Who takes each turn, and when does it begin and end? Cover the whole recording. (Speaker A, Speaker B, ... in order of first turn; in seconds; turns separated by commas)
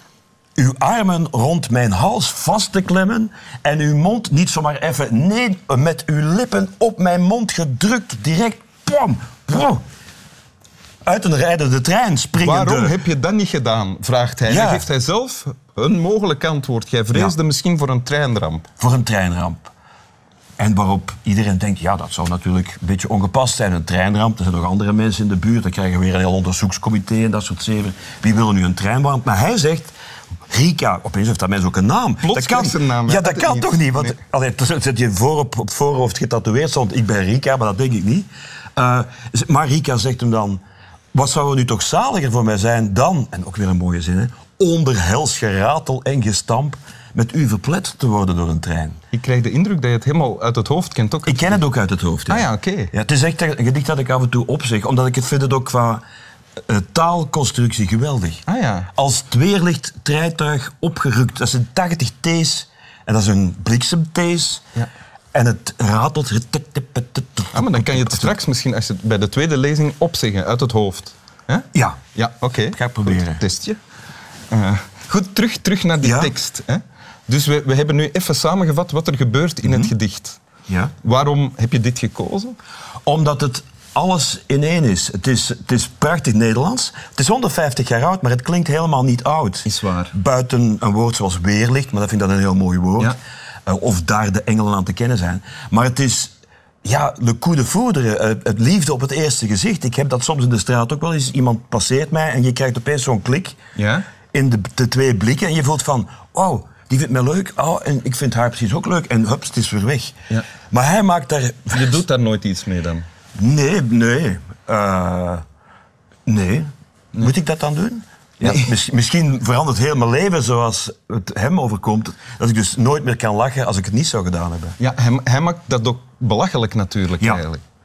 Speaker A: 0.6-9.8, Speaker A: 11.0-12.9, Speaker B: 12.3-18.6, Speaker A: 14.5-14.9, Speaker A: 18.8-19.7, Speaker A: 20.6-29.9, Speaker A: 30.5-40.6, Speaker B: 32.2-34.2, Speaker A: 41.1-49.0, Speaker B: 49.1-51.6, Speaker A: 51.2-56.0, Speaker B: 52.3-52.9, Speaker A: 56.6-58.4, Speaker B: 58.5-58.9, Speaker A: 58.9-64.6, Speaker A: 65.3-68.3, Speaker B: 67.5-73.8, Speaker A: 71.7-72.0, Speaker A: 72.7-73.4, Speaker B: 74.5-80.4, Speaker A: 76.0-76.3, Speaker A: 79.6-79.9, Speaker A: 80.7-80.9, Speaker B: 81.0-82.5, Speaker A: 83.0-103.6, Speaker B: 89.7-90.1, Speaker B: 103.8-104.0, Speaker A: 104.3-110.1, Speaker A: 110.7-112.0, Speaker B: 111.7-113.0, Speaker A: 113.3-115.4, Speaker A: 116.2-124.8, Speaker B: 118.4-118.7, Speaker B: 124.8-127.6